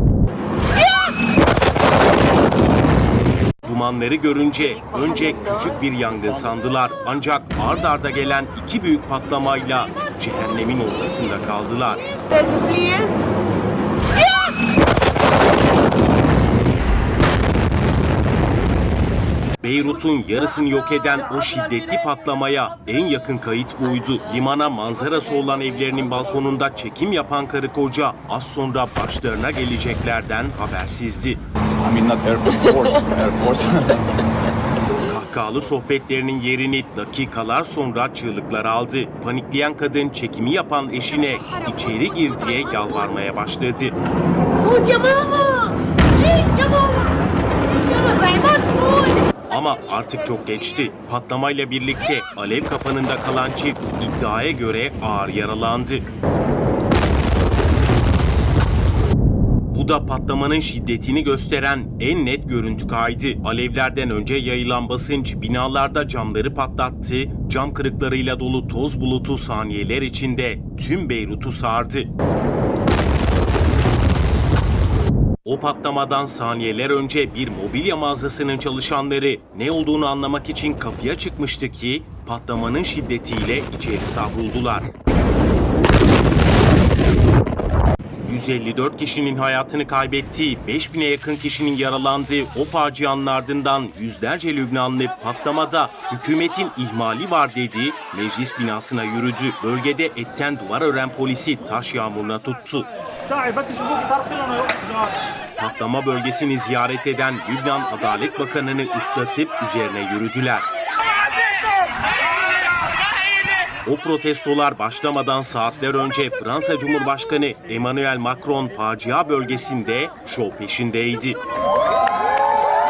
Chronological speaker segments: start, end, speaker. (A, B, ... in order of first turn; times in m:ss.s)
0:03.7-0:12.0 A
0:12.3-0:13.2 B
0:19.6-0:31.4 A
0:31.8-0:34.0 C
0:35.0-0:44.0 A
0:44.6-0:47.2 B
0:47.8-0:49.4 B
0:49.5-0:56.0 A
0:59.7-1:12.1 A
1:15.4-1:24.9 A
1:28.2-1:42.9 A
1:43.5-1:43.9 A
1:45.6-1:50.7 A
1:53.8-2:01.4 A